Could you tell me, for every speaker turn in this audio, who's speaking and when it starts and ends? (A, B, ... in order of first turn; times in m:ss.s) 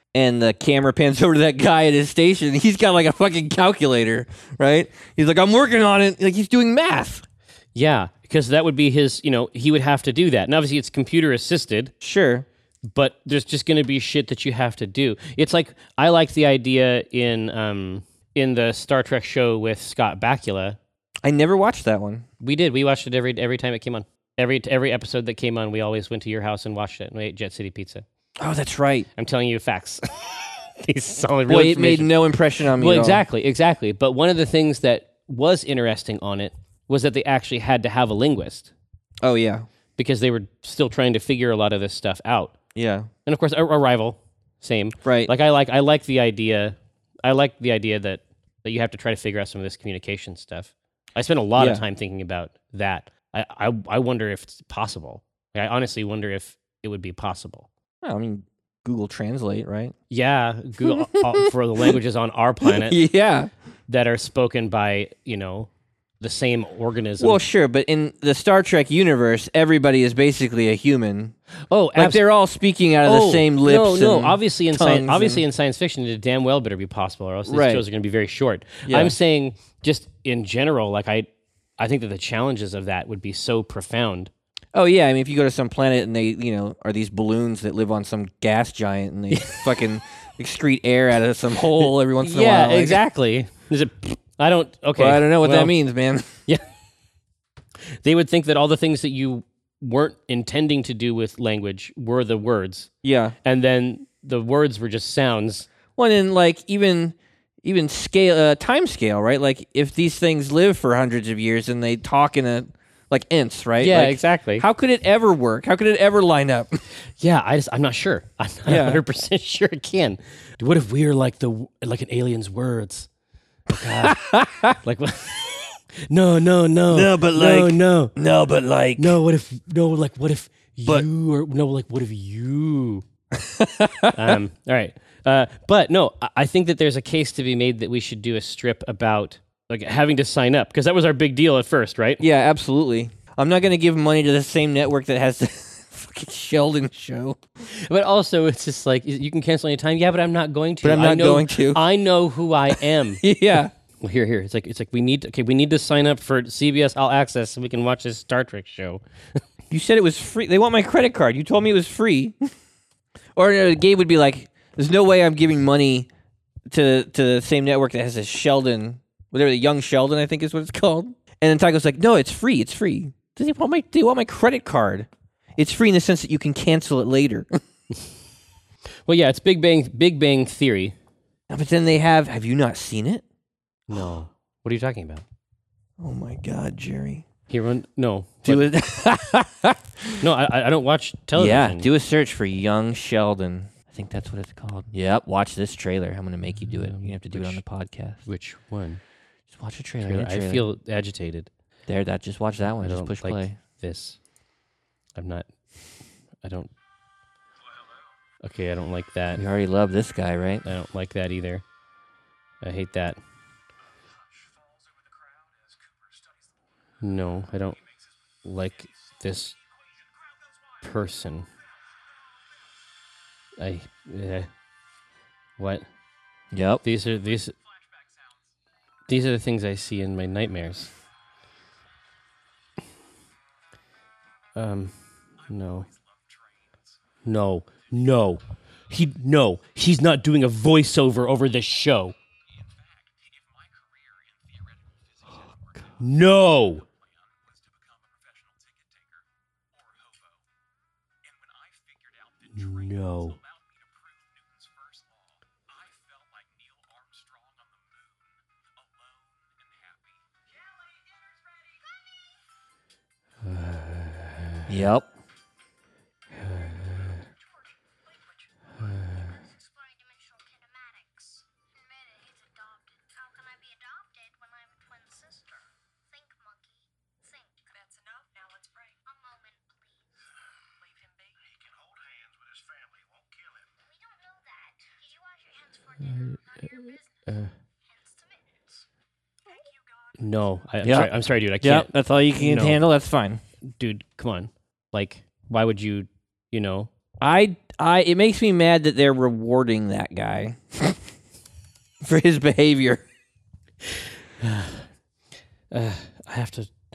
0:00.1-0:07.2 A
0:07.8-0:11.9 B
0:12.0-0:12.5 A
0:12.9-0:20.8 B
0:21.2-0:22.3 A
0:22.4-0:28.0 B
0:28.4-0:29.1 A
0:29.2-0:32.2 B
0:31.5-0:33.2 A
0:32.7-0:38.7 B
0:39.2-0:39.6 A
0:40.0-0:42.5 B
0:42.8-0:43.1 A
0:43.3-0:57.7 B
0:45.0-0:45.3 A
0:51.6-0:51.8 A
0:58.0-0:59.9 A
1:00.1-1:03.0 B
1:00.8-1:01.9 A
1:02.7-1:03.5 A
1:03.9-1:07.4 B
1:07.2-1:11.3 A
1:11.7-1:12.2 B
1:12.0-1:15.4 A
1:13.0-1:21.3 B
1:17.5-1:17.8 A
1:18.9-1:19.2 A
1:21.8-1:24.3 B
1:24.8-1:33.0 A
1:29.3-1:29.7 B
1:31.8-1:35.8 B
1:35.0-1:36.3 A
1:38.0-1:42.9 B
1:43.0-1:43.4 A
1:43.4-1:45.7 B
1:46.0-1:56.8 A
1:53.8-1:54.6 B
1:57.2-2:03.1 B
1:58.7-1:59.0 A
2:03.7-2:04.2 B
2:03.7-2:04.8 A
2:04.8-2:08.2 B
2:06.9-2:09.2 A
2:09.0-2:13.0 B
2:13.3-2:14.4 A
2:14.1-2:22.2 B
2:22.2-2:27.4 A
2:27.7-2:33.2 B
2:30.8-2:31.8 A
2:33.2-2:33.7 A
2:34.0-2:39.4 B
2:39.7-2:42.5 A
2:43.4-2:46.1 A
2:46.7-2:57.5 A
2:59.1-3:01.0 B
3:01.5-3:03.2 A
3:03.9-3:05.2 B
3:06.0-3:07.3 A
3:07.5-3:08.7 B
3:08.5-3:10.2 A
3:10.2-3:11.9 B
3:11.4-3:18.3 A
3:16.6-3:17.6 B
3:18.3-3:19.0 B
3:19.5-3:20.7 A
3:20.0-3:21.5 B
3:21.9-3:23.6 A
3:22.8-3:24.2 B
3:25.2-3:25.5 B
3:26.4-3:26.7 B
3:28.4-3:29.4 B
3:29.4-3:30.7 A
3:30.7-3:31.6 B
3:32.6-3:33.2 B
3:37.0-3:37.8 B
3:38.4-3:39.6 B
3:40.8-3:41.5 B
3:43.6-3:44.5 B
3:45.6-3:45.9 B
3:46.5-3:46.8 A
3:46.8-3:47.5 B
3:49.1-3:50.9 B
3:54.6-3:54.9 B
3:55.4-3:55.9 B
3:57.2-4:02.1 B
4:06.0-4:06.8 B
4:12.5-4:13.4 B
4:14.6-4:15.0 C
4:17.0-4:17.7 C
4:23.4-4:24.7 B
4:24.7-4:25.1 A
4:26.4-4:27.2 B
4:28.8-4:29.4 B
4:29.8-4:31.0 C
4:32.0-4:35.6 C
4:36.2-4:36.6 C
4:39.1-4:39.6 C
4:44.1-4:45.7 C
4:46.0-4:47.5 B
4:48.0-4:48.4 C
4:50.2-4:52.8 B
4:50.8-4:53.4 A
4:53.8-4:56.9 B
4:57.2-5:01.1 A
5:02.0-5:03.0 A
5:04.4-5:04.9 B
5:05.7-5:06.7 B